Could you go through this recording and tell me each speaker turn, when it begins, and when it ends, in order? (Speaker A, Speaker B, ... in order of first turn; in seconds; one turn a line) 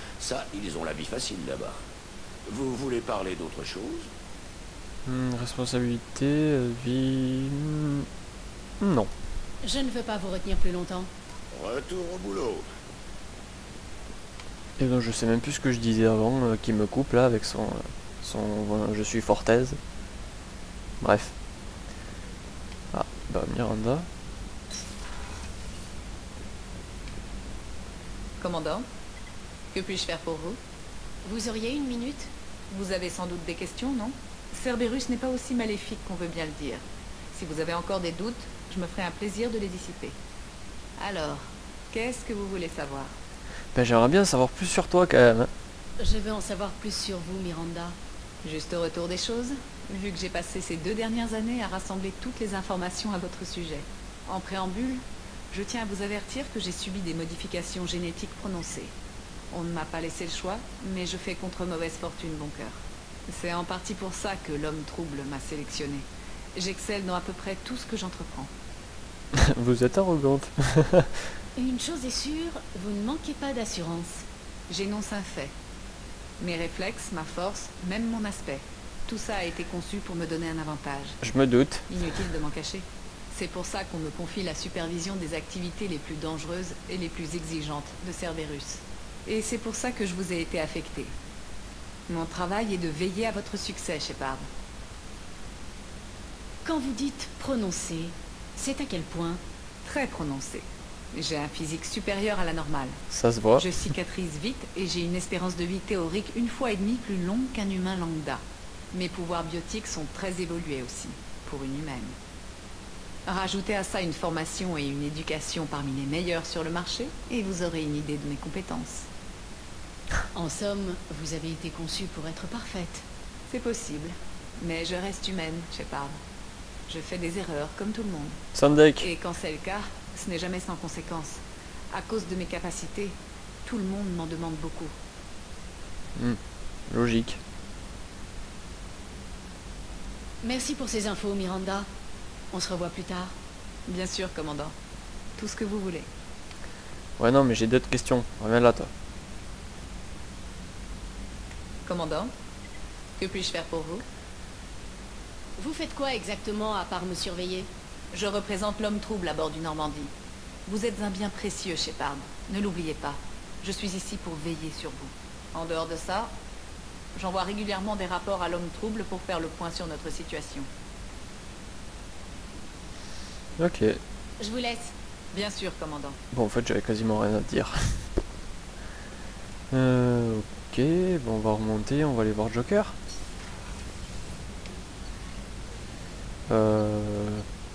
Speaker A: 0.2-1.8
Speaker A: 2.5-4.1
Speaker B: 5.1-8.1
Speaker B: 8.8-9.1
Speaker C: 9.6-11.1
Speaker A: 11.5-12.7
Speaker B: 14.8-19.8
Speaker B: 21.0-21.3
Speaker B: 22.9-24.1
Speaker D: 28.4-28.9
Speaker D: 29.7-30.6
Speaker C: 31.2-32.3
Speaker D: 32.7-36.8
Speaker D: 37.3-40.1
Speaker D: 41.0-43.1
Speaker B: 43.7-45.5
Speaker C: 46.0-48.0
Speaker D: 48.4-58.9
Speaker D: 59.5-68.5
Speaker B: 69.3-71.1
Speaker C: 71.6-74.2
Speaker D: 74.7-75.5
Speaker D: 76.4-81.2
Speaker B: 81.2-81.9
Speaker D: 81.9-91.1
Speaker D: 92.1-94.5
Speaker C: 96.7-99.4
Speaker D: 99.8-103.0
Speaker B: 103.1-103.7
Speaker D: 103.6-112.2
Speaker D: 113.3-119.1
Speaker C: 120.3-123.0
Speaker D: 123.5-126.2
Speaker D: 126.9-128.4
Speaker B: 128.5-129.1
Speaker D: 129.0-134.9
Speaker B: 136.2-137.4
Speaker C: 140.4-141.9
Speaker C: 142.5-143.3
Speaker D: 143.9-144.7
Speaker D: 145.4-146.1
Speaker B: 147.2-148.9
Speaker D: 151.9-152.3
Speaker D: 153.2-154.0
Speaker C: 155.6-157.7
Speaker D: 158.1-160.1
Speaker D: 160.7-166.3
Speaker D: 167.2-170.7
Speaker B: 173.6-174.0
Speaker C: 174.4-174.9
Speaker D: 175.3-176.2
Speaker B: 176.3-178.0
Speaker B: 179.7-182.9
Speaker B: 186.5-187.4